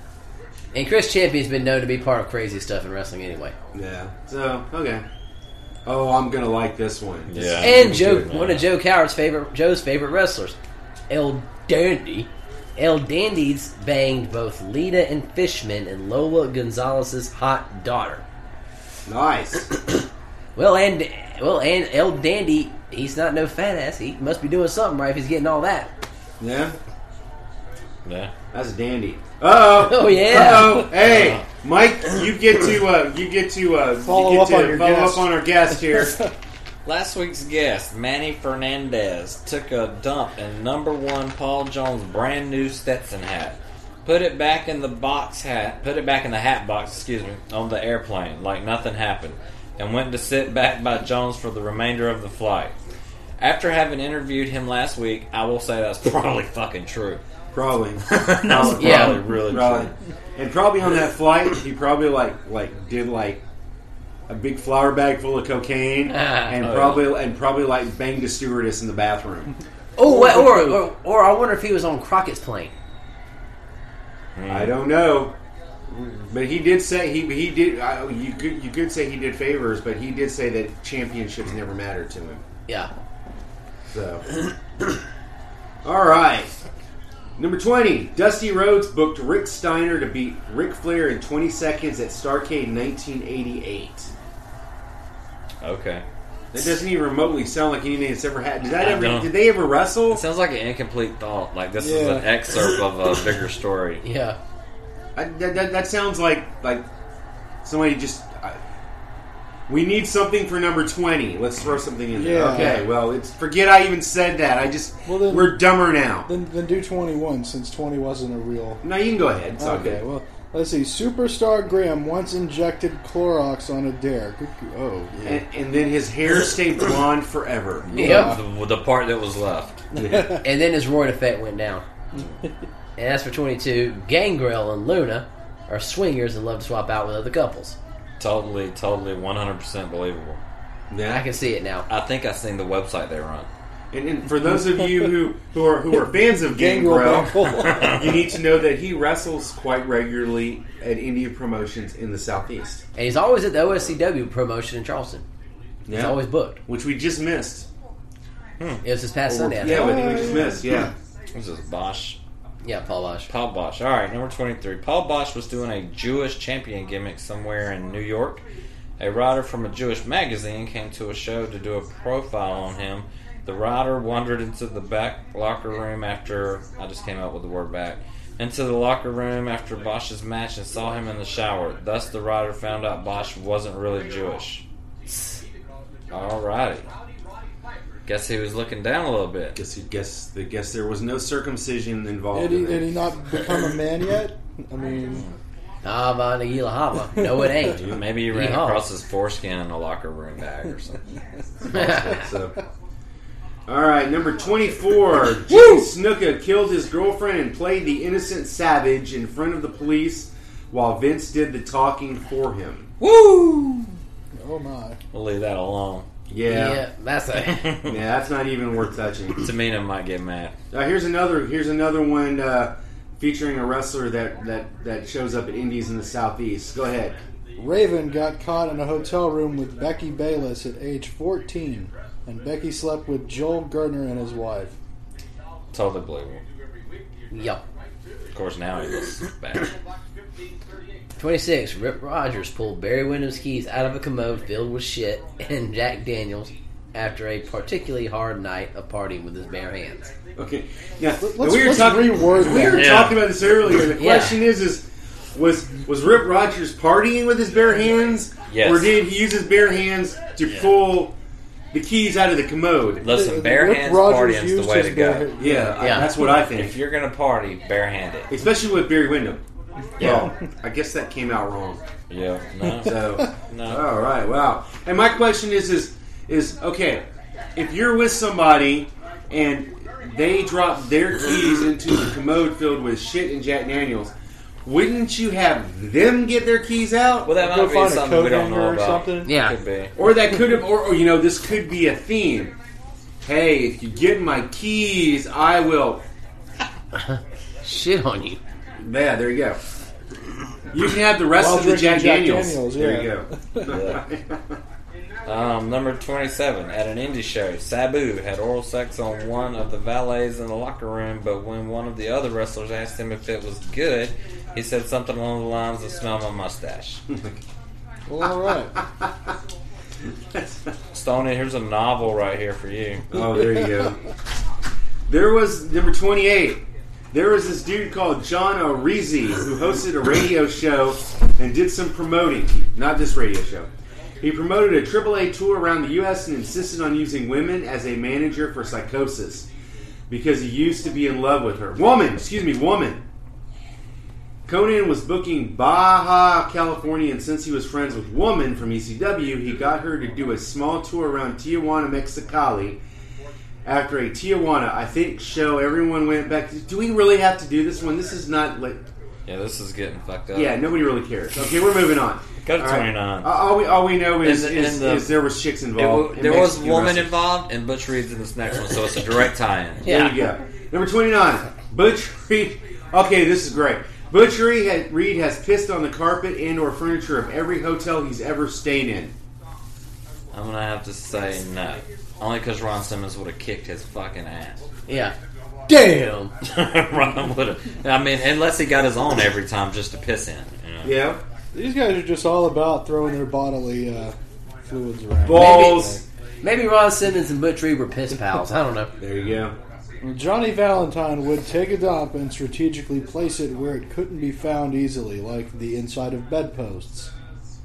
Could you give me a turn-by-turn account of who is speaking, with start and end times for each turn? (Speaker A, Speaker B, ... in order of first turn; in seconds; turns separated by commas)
Speaker A: 0.7-3.5, Speaker B: 3.7-5.0, Speaker B: 5.8-8.3, Speaker C: 7.3-8.7, Speaker A: 7.6-10.6, Speaker A: 11.1-18.2, Speaker B: 19.1-19.7, Speaker A: 20.6-25.9, Speaker B: 26.4-26.8, Speaker C: 28.1-28.3, Speaker B: 28.5-36.2, Speaker A: 29.8-30.9, Speaker C: 30.9-31.4, Speaker D: 34.0-36.3, Speaker C: 36.9-52.8, Speaker C: 53.4-57.2, Speaker B: 57.5-63.4, Speaker C: 58.1-59.9, Speaker A: 58.8-59.2, Speaker B: 64.3-69.5, Speaker A: 66.1-66.5, Speaker C: 66.6-67.1, Speaker A: 70.0-72.7, Speaker D: 70.0-70.8, Speaker C: 74.4-74.8, Speaker B: 74.5-75.4, Speaker B: 75.9-82.4, Speaker B: 83.9-84.2, Speaker B: 85.8-86.5, Speaker B: 87.4-94.1, Speaker C: 95.6-96.0, Speaker B: 96.5-100.2, Speaker C: 98.8-99.3, Speaker C: 100.1-104.0, Speaker D: 101.8-102.3, Speaker A: 104.0-104.4, Speaker B: 105.2-106.9, Speaker B: 107.6-108.6, Speaker B: 109.7-116.3, Speaker D: 112.1-112.9, Speaker D: 115.1-115.7, Speaker D: 116.2-118.8, Speaker B: 118.8-120.0, Speaker D: 119.6-125.4, Speaker B: 125.2-128.0, Speaker C: 127.9-129.8, Speaker A: 127.9-128.3, Speaker D: 127.9-128.4, Speaker D: 129.9-130.4, Speaker B: 129.9-130.4, Speaker A: 130.4-131.8, Speaker A: 133.0-137.8, Speaker C: 138.2-140.4, Speaker B: 140.9-141.3, Speaker A: 141.1-141.9, Speaker C: 141.9-143.5, Speaker B: 143.9-152.8, Speaker D: 146.2-148.0, Speaker C: 147.7-148.0, Speaker A: 153.0-155.2, Speaker B: 155.9-157.7, Speaker A: 155.9-156.6, Speaker A: 158.8-160.2, Speaker B: 159.3-160.9, Speaker D: 159.6-160.7, Speaker C: 161.3-162.2, Speaker A: 162.6-163.3, Speaker C: 163.3-168.4, Speaker C: 169.0-184.6, Speaker C: 186.1-186.9, Speaker C: 188.1-189.6, Speaker B: 189.6-193.1, Speaker D: 192.3-195.2, Speaker A: 195.8-198.8, Speaker B: 197.7-198.1, Speaker C: 197.8-201.0, Speaker B: 201.6-202.6, Speaker A: 201.7-202.2, Speaker B: 203.7-212.9, Speaker C: 205.5-205.8, Speaker C: 213.0-214.0, Speaker D: 214.4-215.0, Speaker C: 215.1-216.1, Speaker B: 216.3-216.8, Speaker A: 216.5-217.8, Speaker C: 217.5-217.9, Speaker B: 217.8-219.5, Speaker C: 219.4-220.6, Speaker B: 220.7-227.2, Speaker D: 227.6-234.8, Speaker C: 235.7-236.4, Speaker A: 237.3-237.6, Speaker C: 238.3-239.7, Speaker A: 241.2-250.1, Speaker B: 250.4-261.1, Speaker D: 251.2-252.9, Speaker C: 252.7-253.3, Speaker A: 253.9-254.4, Speaker C: 258.5-259.0, Speaker C: 260.5-260.8, Speaker B: 261.7-263.1, Speaker C: 263.0-265.3, Speaker D: 263.1-265.9, Speaker B: 265.4-266.8, Speaker A: 265.8-266.1, Speaker C: 266.3-268.3, Speaker B: 268.3-269.4, Speaker C: 270.0-270.3, Speaker B: 270.0-271.8, Speaker C: 272.1-273.8, Speaker B: 272.7-284.1, Speaker B: 284.6-287.3, Speaker C: 287.3-289.9, Speaker D: 287.4-289.3, Speaker A: 289.2-289.6, Speaker B: 290.0-292.6, Speaker B: 293.2-296.0, Speaker A: 297.0-298.4, Speaker B: 298.8-299.6, Speaker B: 300.7-304.6, Speaker D: 301.4-303.7, Speaker C: 303.7-304.0, Speaker C: 305.3-317.0, Speaker B: 317.1-317.4, Speaker D: 318.1-318.8, Speaker B: 320.3-320.6, Speaker C: 320.9-323.1, Speaker B: 323.1-324.0, Speaker B: 325.1-333.7, Speaker B: 334.2-339.5, Speaker B: 340.1-343.0, Speaker B: 344.5-352.8, Speaker B: 353.6-358.9, Speaker C: 359.3-360.6, Speaker B: 360.3-367.1, Speaker C: 362.4-363.3, Speaker C: 364.2-365.1, Speaker C: 365.8-369.9, Speaker B: 369.8-379.1, Speaker A: 369.8-370.3, Speaker C: 380.3-384.7, Speaker A: 384.9-385.1, Speaker A: 385.7-386.3, Speaker C: 386.4-391.0, Speaker B: 390.8-391.2, Speaker D: 391.5-396.0, Speaker B: 395.2-396.0, Speaker A: 395.3-398.9, Speaker B: 399.0-399.6, Speaker D: 400.0-407.1